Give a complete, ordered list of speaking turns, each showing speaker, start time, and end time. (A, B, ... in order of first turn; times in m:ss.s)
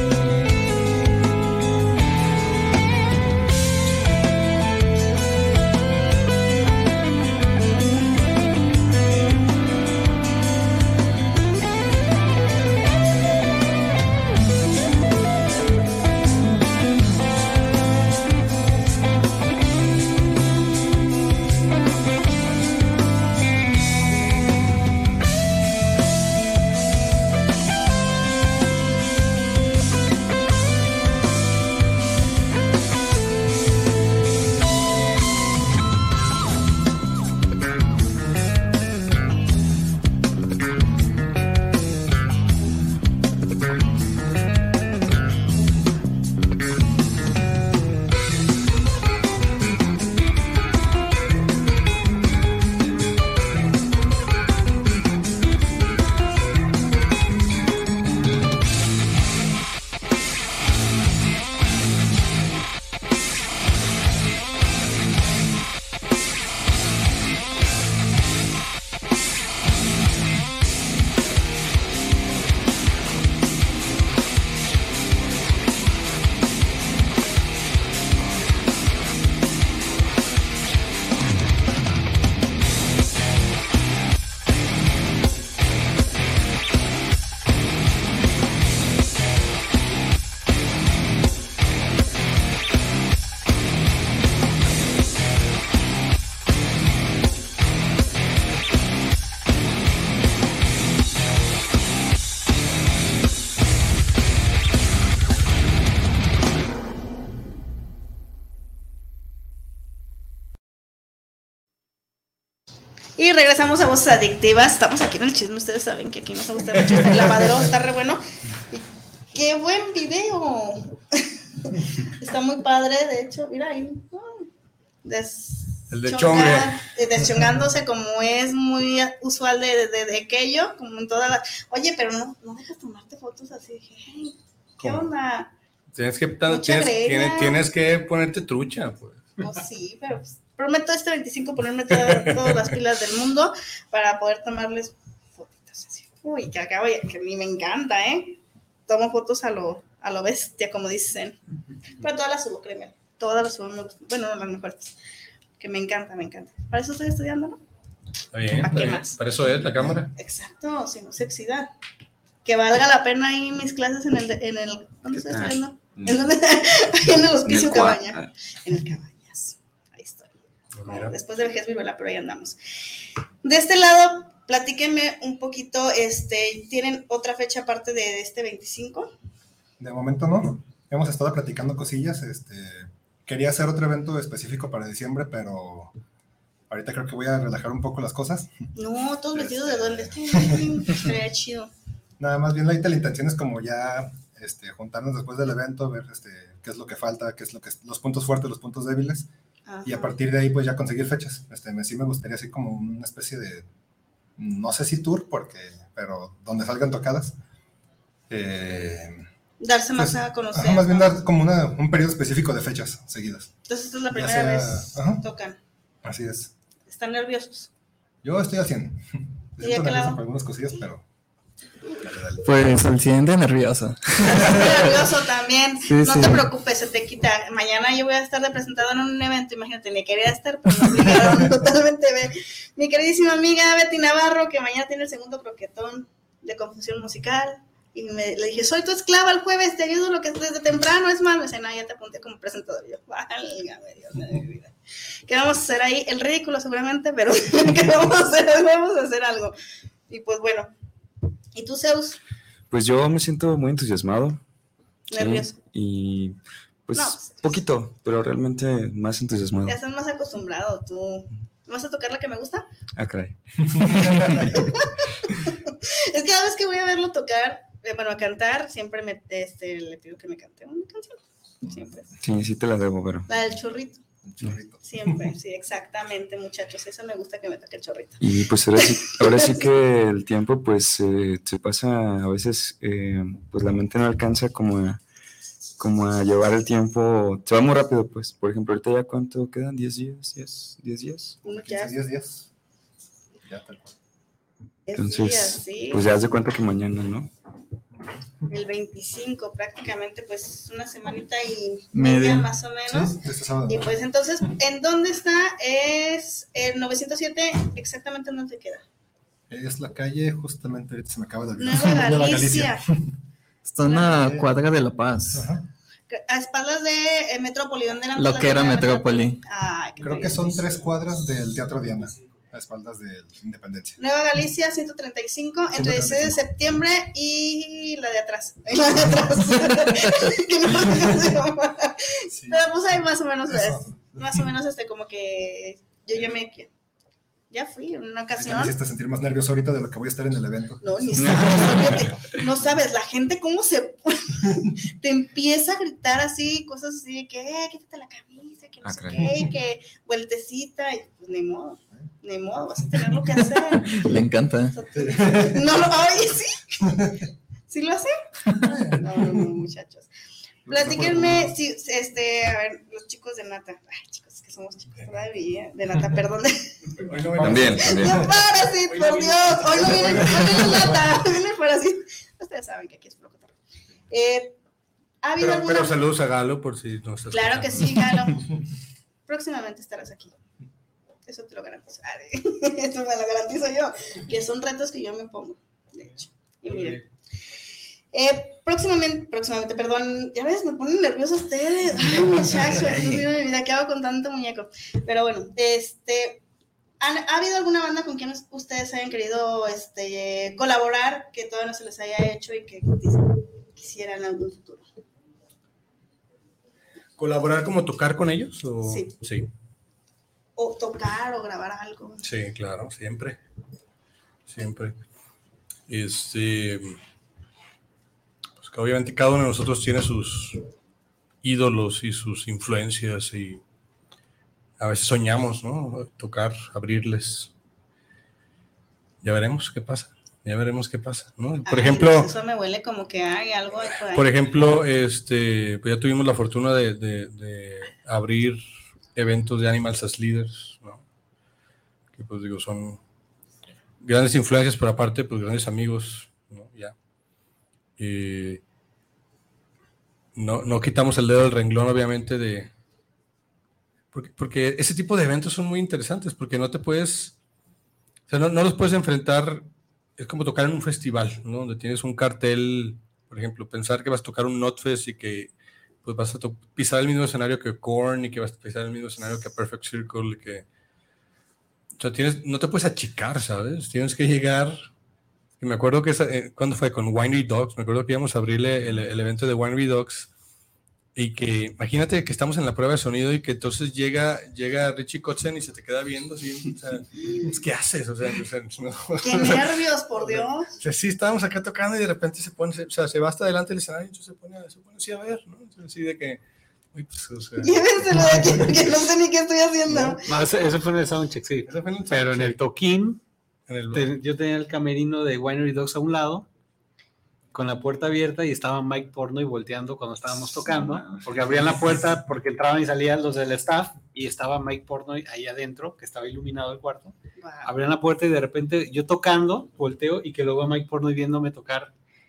1:53.2-2:04.5 A
2:05.0-2:15.5 A
2:05.9-2:06.8 B
2:15.9-2:19.3 B
2:16.5-2:17.6 A
2:19.4-2:31.4 A
2:22.1-2:22.6 B
2:32.0-2:35.0 A
2:35.6-2:37.6 A
2:38.3-2:40.1 B
2:38.6-2:39.1 A
2:40.1-2:41.7 A
2:42.4-2:52.6 A
2:45.1-2:46.2 C
2:47.4-2:48.3 C
2:50.8-2:51.1 B
2:53.4-2:59.1 A
2:59.8-3:05.9 D
3:06.7-3:08.6 D
3:08.8-3:11.7 A
3:09.3-3:11.0 D
3:12.2-3:19.3 D
3:19.7-3:20.2 A
3:19.8-3:23.7 D
3:24.4-3:27.4 D
3:28.3-3:29.2 D
3:29.6-3:31.2 A
3:30.0-3:33.5 D
3:33.7-3:35.6 A
3:34.1-3:35.2 D
3:36.0-3:36.5 D
3:36.9-3:37.7 A
3:38.2-3:41.0 D
3:39.6-3:40.2 A
3:42.4-3:45.1 E
3:44.2-4:04.7 A
3:45.9-3:46.4 E
4:05.3-4:09.5 A
4:10.1-4:10.7 A
4:11.5-4:12.2 A
4:12.7-4:14.4 C
4:15.1-4:15.5 A
4:15.2-4:19.8 C
4:17.0-4:17.6 A
4:19.7-4:22.6 A
4:23.0-4:24.7 C
4:23.9-4:24.4 D
4:24.5-4:32.1 A
4:32.2-4:33.3 C
4:33.3-4:34.0 A
4:34.2-4:35.3 D
4:34.8-4:38.2 A
4:38.2-4:45.0 C
4:38.9-4:39.6 A
4:45.8-4:51.4 C
4:51.4-4:52.5 D
4:51.4-4:51.9 A
4:53.4-4:53.9 D
4:54.9-4:56.0 A
4:54.9-4:57.3 C
4:58.5-5:08.8 A
5:01.9-5:02.5 E
5:02.9-5:03.9 D
5:09.5-5:13.1 D
5:11.6-5:12.8 A
5:13.6-5:15.5 E
5:13.9-5:14.4 D
5:15.3-5:15.6 D
5:16.1-5:20.6 A
5:18.1-5:19.4 E
5:20.0-5:24.0 D
5:24.0-5:36.7 A
5:25.8-5:26.4 D
5:32.3-5:32.6 D
5:33.5-5:34.1 D
5:37.5-5:38.7 A
5:38.4-5:41.4 D
5:40.8-5:54.0 A
5:41.2-5:41.8 E
5:48.8-5:49.4 C
5:53.8-5:54.7 E
5:54.7-5:57.0 A
5:55.0-5:55.6 D
5:56.8-5:57.2 D
5:57.7-6:00.1 A
5:58.5-5:59.4 D
6:00.7-6:06.8 A
6:00.7-6:01.2 D
6:01.0-6:01.4 B
6:07.0-6:08.3 B
6:07.4-6:07.8 D
6:07.4-6:08.3 C
6:07.8-6:13.5 A
6:08.8-6:11.1 B
6:14.1-6:14.6 A
6:15.2-6:15.9 A
6:15.4-6:18.4 B
6:17.3-6:18.5 A
6:19.3-6:20.4 A
6:21.3-6:27.0 A
6:28.1-6:36.4 A
6:32.7-6:33.2 E
6:37.0-6:44.8 A
6:47.2-6:49.5 B
6:48.8-6:49.1 A
6:50.6-6:52.2 A
6:52.2-6:53.4 B
6:54.5-6:54.9 B
6:55.9-6:57.0 B
6:58.6-7:00.6 B
7:01.4-7:03.6 B
7:04.8-7:07.5 B
7:09.2-7:12.3 B
7:11.6-7:14.3 A
7:14.1-7:18.6 B
7:19.1-7:21.0 B
7:22.1-7:23.0 B
7:24.0-7:26.9 B
7:28.0-7:28.6 B
7:30.4-7:32.7 B
7:34.1-7:37.4 B
7:38.3-7:45.5 B
7:46.0-7:50.6 B
7:52.0-7:54.9 B
7:55.6-8:00.3 B
8:01.1-8:16.4 B
8:09.2-8:10.7 A
8:16.9-8:18.4 B
8:17.6-8:20.2 A
8:20.2-8:23.2 F
8:21.6-8:22.6 B
8:23.7-8:24.1 B
8:23.9-8:26.4 F
8:27.5-8:41.9 F
8:30.6-8:31.6 C
8:37.4-8:37.7 A